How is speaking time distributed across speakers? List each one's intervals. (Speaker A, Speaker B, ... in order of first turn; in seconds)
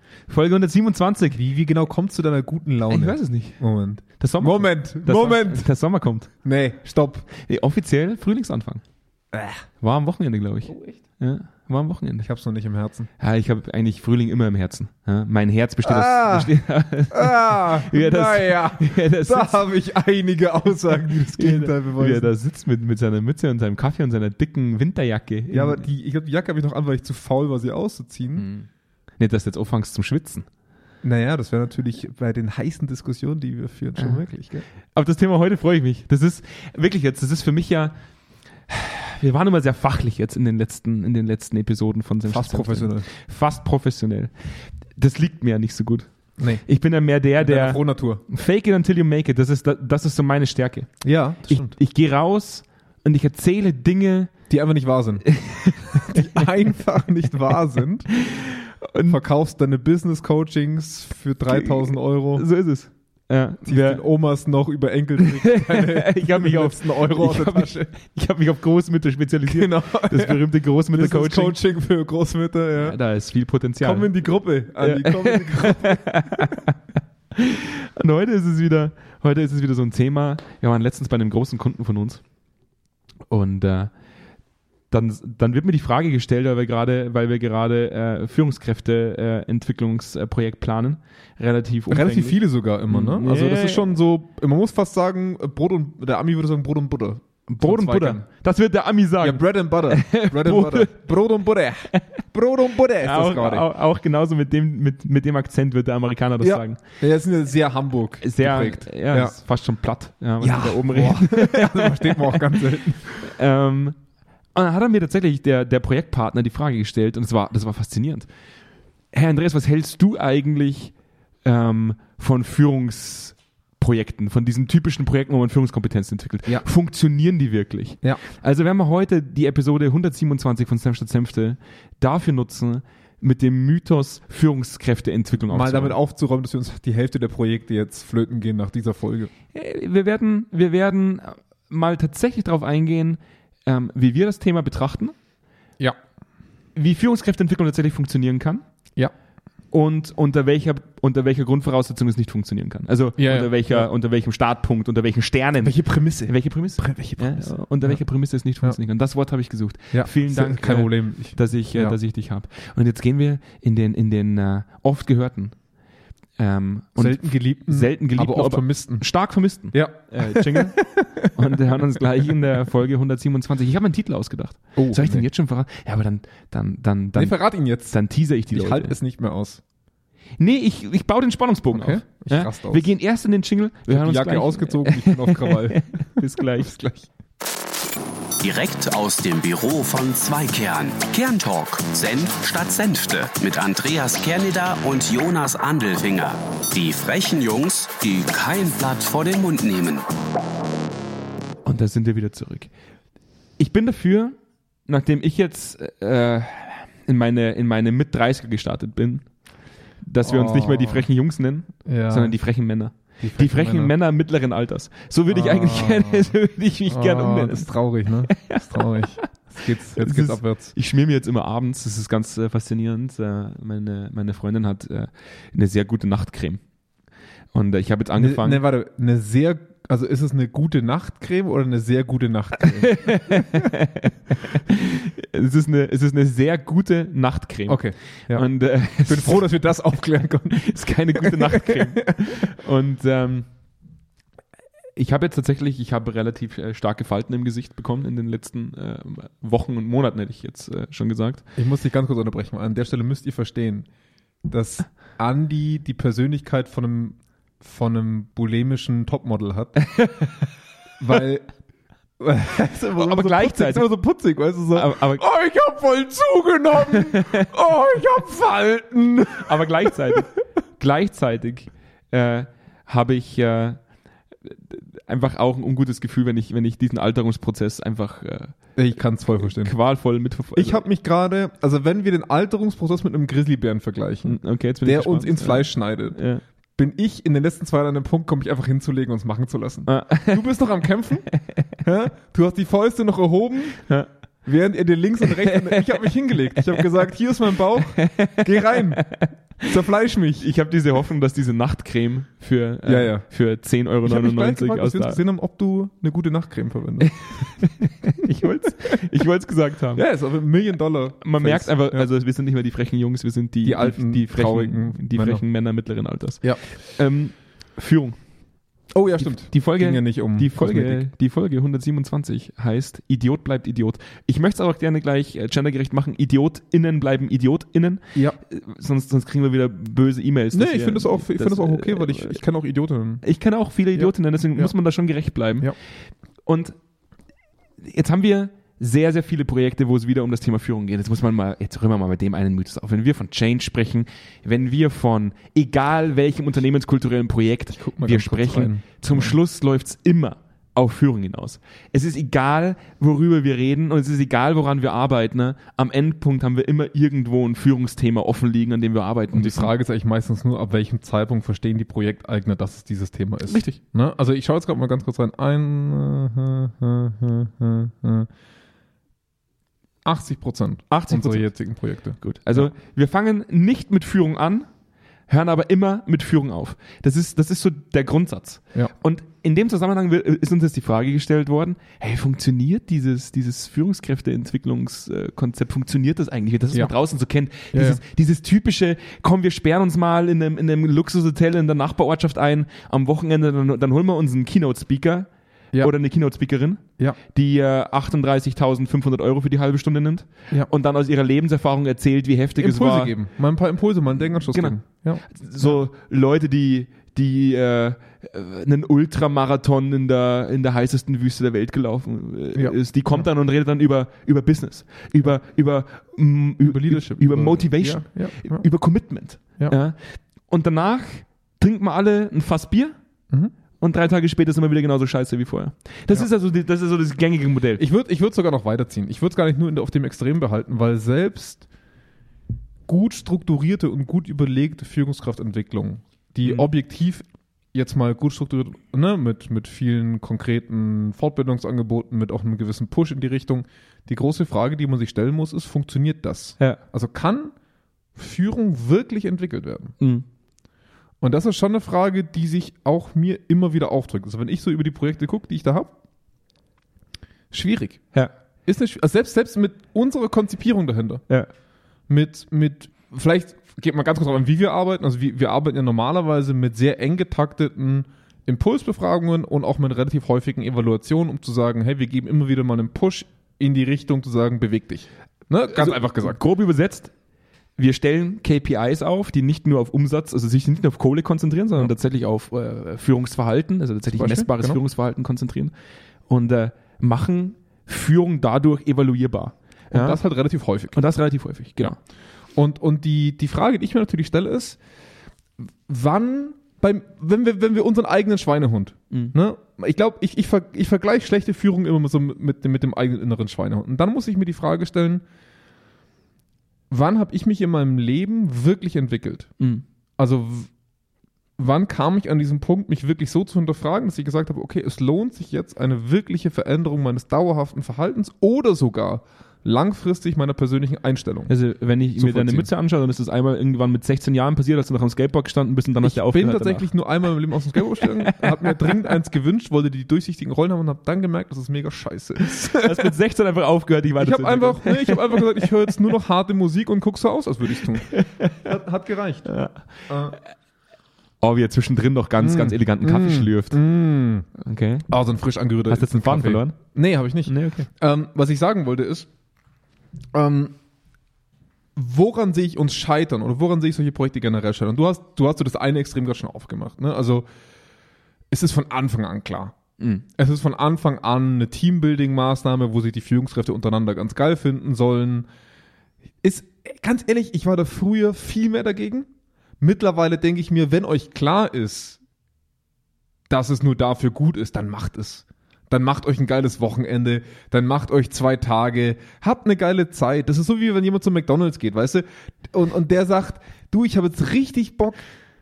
Speaker A: 0.3-1.4, 2.9-3.6, 4.2-6.3, 7.4-8.8, 9.8-12.3, 13.2-19.6, 21.4-25.8, 28.4-28.7, 29.2-30.5, 35.0-37.9, 38.7-44.3, 45.0-46.1, 46.6-51.0, 51.5-54.3, 55.3-56.4, 58.2-59.2, 61.5-64.0, 65.2-71.6, 72.8-74.1, 74.8-76.8, 77.3-82.2, 83.3-83.9, 84.9-93.8, 97.5-101.0, 103.0-106.8, 108.2-112.6, 113.2-114.0, 114.5-118.3, 119.1-120.9, 121.4-136.0, 139.5-145.2, 146.8-148.6, 149.7-165.6, 166.4-177.4, 177.9-179.0, 180.4-187.1, 201.7-202.7, 203.6-204.4, 204.9-209.2, 210.0-217.7, 218.3-219.3, 219.9-226.6, 227.5-228.6, 232.6-239.5, 240.5-243.5, 245.0-251.4, 259.8-260.3, 262.9-263.9, 264.7-265.2, 266.9-267.5, 269.4-273.8, 274.4-278.6, 279.4-280.8, 284.2-286.4, 289.9-290.5, 291.3-291.7, 295.4-295.9, 298.0-299.3, 300.4-305.2, 307.1-310.0, 311.2-318.2, 319.2-332.4, 333.2-335.7, 336.5-336.8, 337.8-359.7, 363.4-363.8, 370.9-371.5, 372.2-374.7, 375.3-395.3, 395.8-403.1, 404.5-422.9, 423.8-427.8, 450.0-450.2, 475.7-477.1, 477.8-485.7, 486.3-490.2, 490.9-492.0, 499.1-499.4, 521.5-526.9, 528.2-529.0, 532.4-535.6, 538.1-538.6, 539.5-540.3, 541.4-543.8, 544.6-545.1, 545.9-546.8, 547.5-547.9
Speaker B: 1.3-5.7, 6.4-7.3, 9.3-9.6, 12.2-13.1, 15.8-16.6, 17.1-22.3, 25.5-28.5, 31.0-34.6, 42.3-43.1, 46.4-46.6, 47.4-48.2, 51.0-51.8, 54.5-58.1, 59.1-62.5, 63.6-67.9, 69.5-73.0, 73.8-76.5, 91.9-98.2, 99.2-103.7, 106.4-109.4, 110.4-113.0, 135.5-139.3, 153.2-153.9, 155.6-158.0, 159.9-162.0, 167.0-169.1, 169.7-172.3, 174.8-175.2, 177.2-178.0, 178.5-179.6, 181.7-182.9, 183.9-186.2, 210.2-211.1, 211.8-212.4, 213.2-213.9, 215.3-216.3, 216.9-220.7, 228.2-233.7, 237.7-242.4, 251.6-253.9, 254.5-259.8, 261.0-261.5, 262.2-270.2, 278.8-279.8, 280.5-286.2, 286.8-291.3, 291.8-293.9, 294.4-300.5, 302.9-303.3, 304.1-307.5, 309.9-312.1, 313.6-315.4, 318.9-321.0, 330.5-333.2, 333.9-334.7, 347.8-349.4, 359.3-368.3, 370.1-372.7, 387.7-388.0, 402.6-405.8, 412.6-413.2, 416.6-418.6, 427.8-431.7, 432.9-447.5, 448.2-449.9, 451.2-455.9, 457.5-458.0, 458.7-461.2, 462.1-476.4, 484.1-484.8, 489.9-491.0, 492.6-494.8, 495.9-505.2, 506.9-509.5, 510.2-510.7, 511.6-521.5, 522.2-522.7, 526.0-533.1, 534.2-539.5, 540.1-540.4, 542.4-544.5, 545.1-549.3, 550.3-550.8, 552.0-557.5, 558.5-559.8, 560.3-565.5, 566.4-569.3, 569.8-572.2, 573.5-585.2
Speaker C: 188.4-200.1